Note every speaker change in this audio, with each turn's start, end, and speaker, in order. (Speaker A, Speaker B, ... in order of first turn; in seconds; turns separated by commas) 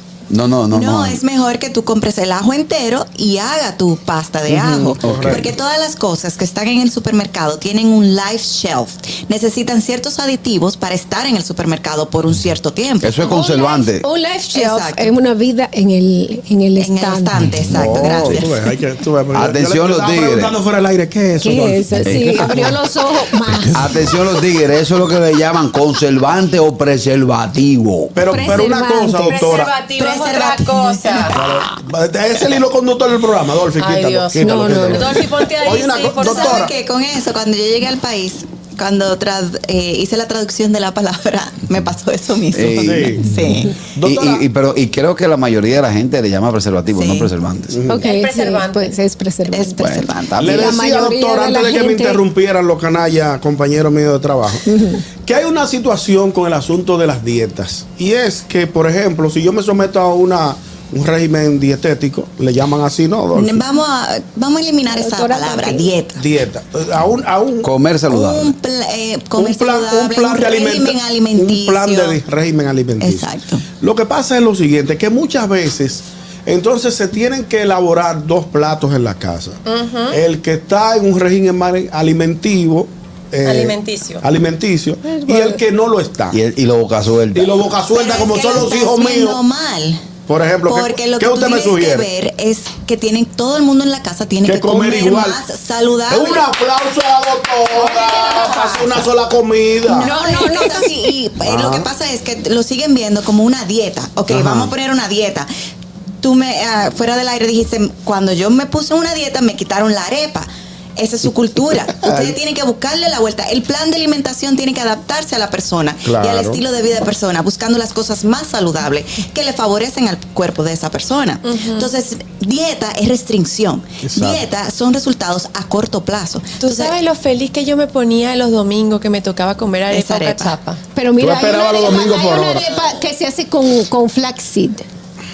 Speaker A: 0.3-1.2, Speaker B: 0.7-13.2, Speaker C: 4.5-5.4, Speaker A: 5.0-5.5, Speaker A: 13.0-14.1, Speaker D: 13.2-17.3, Speaker B: 14.5-15.1, Speaker B: 16.8-18.6, Speaker C: 17.7-22.7, Speaker A: 17.9-18.4, Speaker A: 19.3-20.5, Speaker D: 21.4-23.8, Speaker A: 22.1-22.7, Speaker A: 23.7-28.2, Speaker C: 28.1-29.8, Speaker D: 28.3-29.6, Speaker E: 29.2-31.4, Speaker B: 30.0-31.4, Speaker C: 31.3-36.7, Speaker E: 33.8-36.7, Speaker D: 34.4-35.1, Speaker B: 36.2-43.8, Speaker A: 42.5-43.2, Speaker C: 42.8-43.2, Speaker C: 44.0-44.4, Speaker A: 44.0-47.8, Speaker B: 46.9-47.3, Speaker C: 47.7-48.1, Speaker D: 47.9-52.2, Speaker E: 48.0-48.9, Speaker B: 49.5-50.4, Speaker A: 49.8-50.8, Speaker C: 50.4-63.6, Speaker D: 54.7-55.0, Speaker B: 63.4-66.2, Speaker D: 64.9-65.9, Speaker C: 66.2-67.7, Speaker A: 67.6-68.5, Speaker B: 68.1-72.2, Speaker C: 69.4-73.3, Speaker B: 73.0-73.6, Speaker C: 73.8-86.4, Speaker E: 79.7-80.2, Speaker E: 83.5-84.2, Speaker D: 85.1-85.6, Speaker A: 86.3-87.7, Speaker C: 87.3-89.4, Speaker B: 87.9-90.0, Speaker C: 90.3-92.1, Speaker B: 90.7-96.5, Speaker C: 94.4-95.4, Speaker C: 96.1-100.1, Speaker B: 98.0-98.5, Speaker B: 99.9-105.5, Speaker D: 100.0-100.9, Speaker C: 101.5-101.9, Speaker C: 104.3-104.7, Speaker B: 106.2-127.0, Speaker C: 112.0-112.3, Speaker C: 116.0-116.6, Speaker E: 121.4-121.9, Speaker E: 126.6-130.8, Speaker B: 129.9-130.6, Speaker D: 130.9-134.8, Speaker C: 131.2-132.7